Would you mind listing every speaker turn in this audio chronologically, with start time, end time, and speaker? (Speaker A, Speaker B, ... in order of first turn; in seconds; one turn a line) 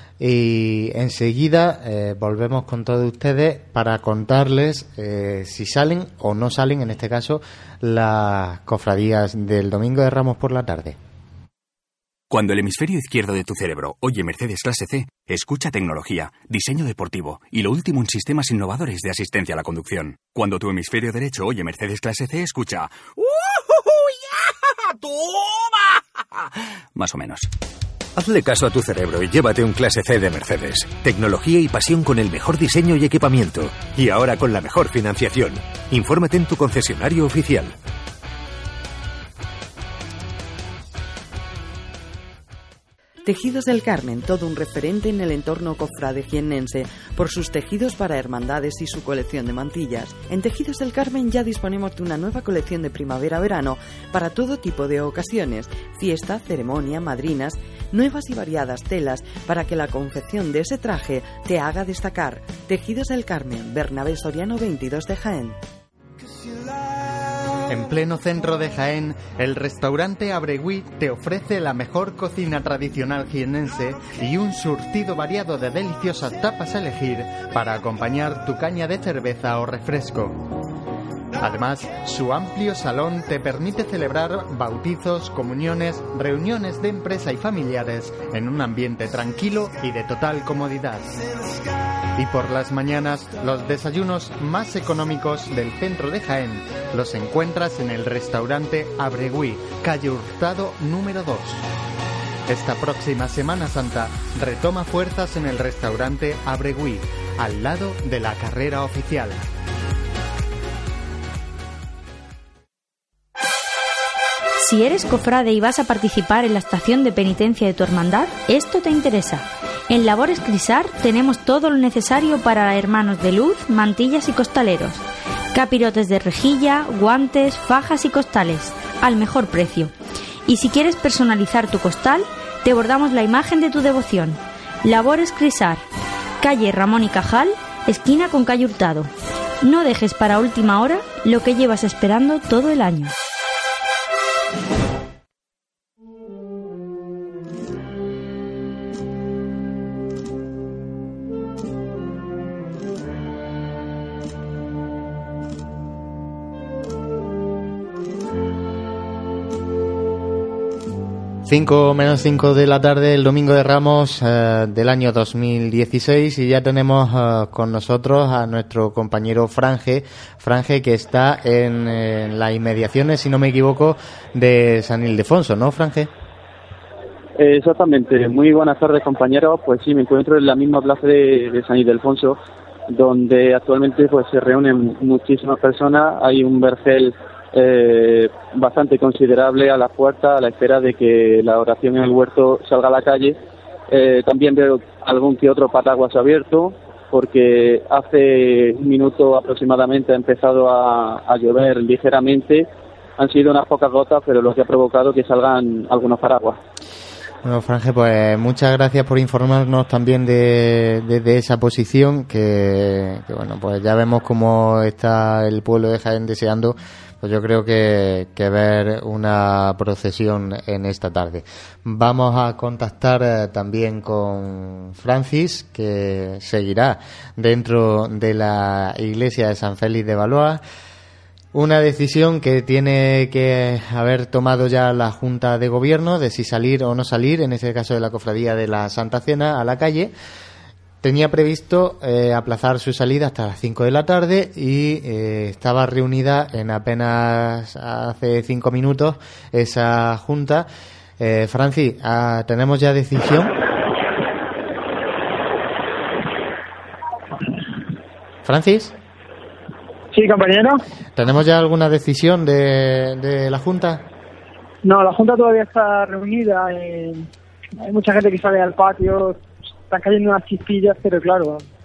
Speaker A: 0.2-11.0
Speaker B: 12.3-22.9
Speaker C: 25.2-25.6
Speaker B: 26.9-27.5
Speaker C: 28.1-37.7
Speaker D: 43.2-65.6
Speaker A: 67.7-80.5
Speaker A: 81.4-91.2
Speaker A: 92.1-101.6
Speaker A: 102.5-109.4
Speaker E: 114.6-125.0
Speaker E: 125.5-129.9
Speaker E: 130.4-135.8
Speaker E: 136.4-139.1
Speaker E: 139.6-143.1
Speaker A: 161.4-176.1
Speaker F: 177.4-182.4
Speaker F: 182.9-193.4
Speaker F: 193.9-202.7
Speaker F: 203.2-206.6
Speaker A: 207.4-230.6
Speaker A: 231.5-240.1
Speaker A: 241.0-250.7
Speaker A: 251.2-253.6
Speaker A: 258.4-258.9
Speaker G: 260.1-260.8
Speaker A: 261.1-264.1
Speaker G: 264.8-267.3
Speaker G: 267.8-271.6